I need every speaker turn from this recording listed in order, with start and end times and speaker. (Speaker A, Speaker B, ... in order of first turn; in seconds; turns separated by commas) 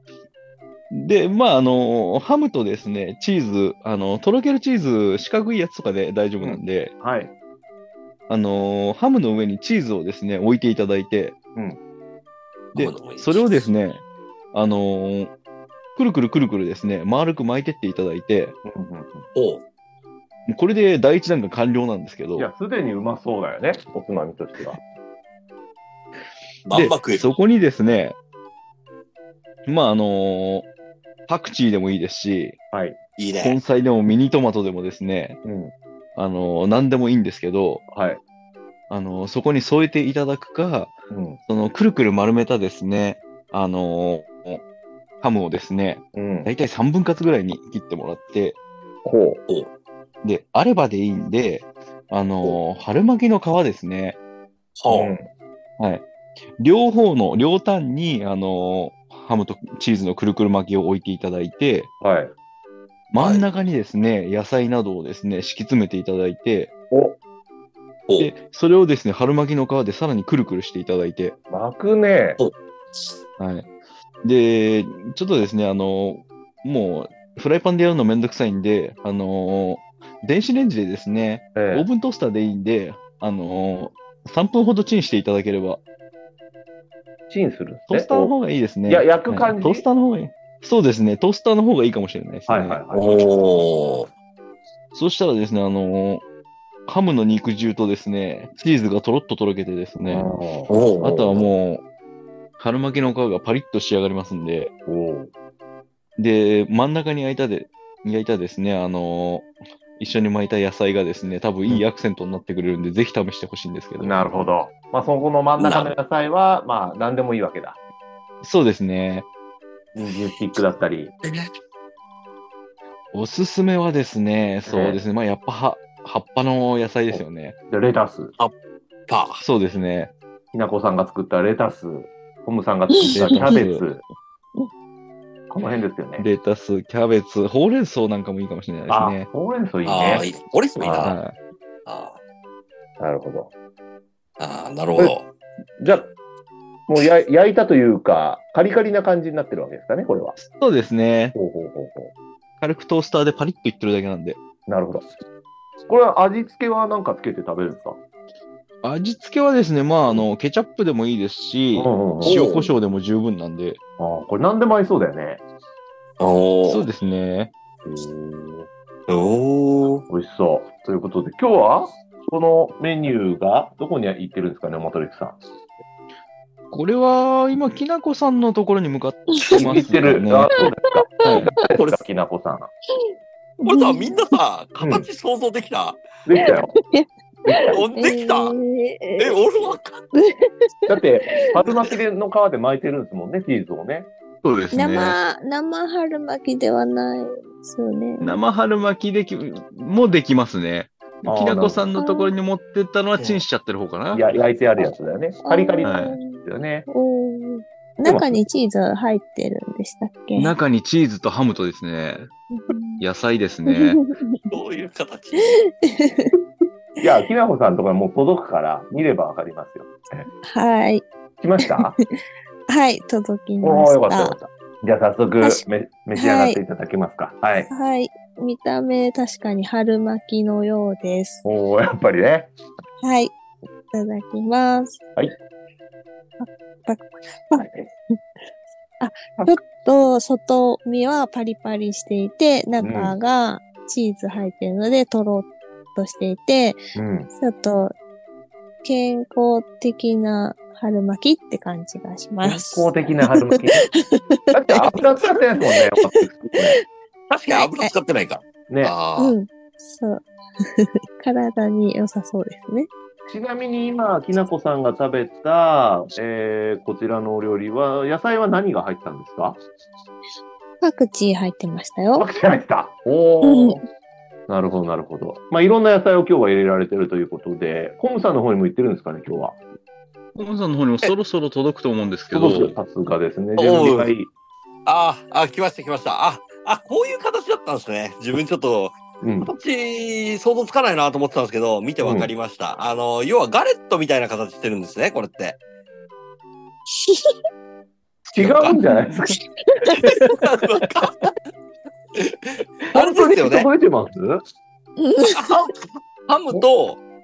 Speaker A: 0.9-6.9, Speaker B: 6.4-7.3, Speaker A: 8.3-11.4, Speaker C: 12.8-13.4, Speaker A: 12.8-15.3, Speaker A: 16.0-18.6, Speaker B: 18.6-19.2, Speaker C: 19.4-19.6, Speaker A: 20.5-22.5, Speaker B: 22.4-24.8, Speaker C: 26.6-27.2, Speaker A: 26.7-28.1, Speaker A: 29.6-30.7, Speaker A: 31.3-32.6, Speaker B: 32.7-33.0, Speaker C: 33.2-33.6, Speaker A: 33.4-35.4, Speaker B: 35.4-35.7, Speaker A: 36.1-37.8, Speaker B: 37.9-38.2, Speaker A: 38.9-41.0, Speaker B: 41.1-41.4, Speaker A: 41.5-44.6, Speaker A: 45.2-48.6, Speaker B: 46.1-46.5, Speaker B: 49.0-49.4, Speaker A: 50.2-54.2, Speaker C: 54.8-55.1, Speaker B: 54.9-55.3, Speaker A: 55.8-56.0, Speaker A: 56.6-61.9, Speaker B: 62.0-62.3, Speaker A: 63.1-66.7, Speaker C: 63.2-63.4, Speaker B: 66.9-67.2, Speaker A: 68.2-71.4, Speaker B: 71.5-72.4, Speaker C: 72.4-73.1, Speaker A: 73.4-73.7, Speaker A: 74.2-85.8, Speaker B: 81.5-81.9, Speaker B: 87.3-88.3, Speaker A: 87.9-92.8, Speaker B: 88.9-89.8, Speaker B: 92.5-93.2, Speaker C: 92.9-94.1, Speaker A: 94.9-96.2, Speaker A: 96.9-100.3, Speaker B: 100.0-100.7, Speaker C: 100.7-101.5, Speaker A: 101.0-101.8, Speaker A: 102.6-104.7, Speaker B: 104.9-105.3, Speaker A: 106.2-114.5, Speaker B: 114.0-117.8, Speaker C: 115.6-116.0, Speaker A: 118.4-119.3, Speaker B: 120.0-121.1, Speaker C: 121.2-121.5, Speaker A: 123.1-127.5, Speaker B: 124.7-125.0, Speaker B: 127.1-128.3, Speaker C: 129.1-129.4, Speaker A: 129.4-130.1, Speaker B: 130.5-134.0, Speaker A: 133.1-133.9, Speaker B: 135.5-136.2, Speaker A: 136.2-139.3, Speaker B: 138.9-140.2, Speaker C: 139.9-141.1, Speaker B: 140.8-141.1, Speaker A: 141.0-141.3, Speaker C: 141.9-142.2, Speaker B: 143.0-143.5, Speaker C: 144.4-145.2, Speaker B: 145.8-146.1, Speaker B: 146.9-150.4, Speaker A: 150.4-151.4, Speaker B: 151.3-152.1, Speaker A: 152.6-154.4, Speaker B: 154.7-155.1, Speaker B: 155.9-158.0, Speaker A: 158.8-163.8, Speaker B: 161.8-162.4, Speaker C: 162.2-162.7, Speaker B: 164.0-165.4, Speaker C: 166.2-166.9, Speaker A: 166.7-167.5, Speaker B: 167.8-168.7, Speaker C: 169.1-170.0, Speaker B: 170.1-175.4, Speaker A: 176.7-180.5, Speaker B: 179.5-182.7, Speaker A: 181.2-181.5, Speaker D: 183.6-184.2, Speaker C: 183.6-186.0, Speaker B: 184.8-185.1, Speaker B: 186.2-186.7, Speaker B: 187.5-187.8, Speaker C: 187.7-188.5, Speaker D: 187.9-189.4, Speaker C: 189.2-190.0, Speaker D: 190.1-190.5, Speaker B: 190.9-194.1, Speaker A: 194.4-195.2, Speaker D: 194.7-198.3, Speaker A: 198.2-204.3, Speaker B: 201.2-201.8, Speaker D: 202.0-202.3, Speaker B: 204.1-206.9, Speaker D: 205.4-210.5, Speaker A: 205.8-206.2, Speaker B: 208.0-208.4, Speaker A: 210.4-212.3, Speaker D: 212.5-213.0, Speaker A: 213.0-214.0, Speaker D: 213.7-214.4, Speaker C: 214.5-215.6, Speaker D: 215.8-216.3, Speaker B: 217.0-220.3, Speaker D: 220.4-221.1, Speaker B: 221.4-222.0, Speaker D: 222.7-224.4, Speaker B: 223.6-227.7, Speaker D: 226.2-226.6, Speaker D: 227.7-231.4, Speaker B: 231.4-232.5, Speaker D: 233.0-233.3, Speaker D: 233.9-235.0, Speaker D: 236.4-237.9, Speaker D: 239.0-246.8, Speaker B: 242.8-243.1, Speaker B: 247.0-247.3, Speaker D: 247.4-247.9, Speaker D: 248.8-252.9, Speaker B: 252.4-253.8, Speaker B: 254.5-256.8, Speaker C: 257.3-259.3, Speaker D: 257.5-257.9, Speaker B: 258.7-258.9, Speaker D: 259.2-260.2, Speaker D: 260.8-262.9, Speaker B: 263.3-269.6, Speaker D: 270.8-272.2, Speaker B: 272.1-273.8, Speaker D: 273.4-273.8, Speaker B: 274.5-279.6, Speaker A: 280.4-282.8, Speaker B: 282.3-284.3, Speaker C: 283.6-284.1, Speaker C: 284.9-295.6, Speaker B: 289.2-289.5, Speaker B: 292.0-292.3, Speaker C: 298.3-298.8, Speaker B: 298.4-299.4, Speaker C: 300.0-301.3, Speaker C: 302.9-303.7, Speaker B: 302.9-304.4, Speaker D: 305.0-305.4, Speaker C: 305.3-307.0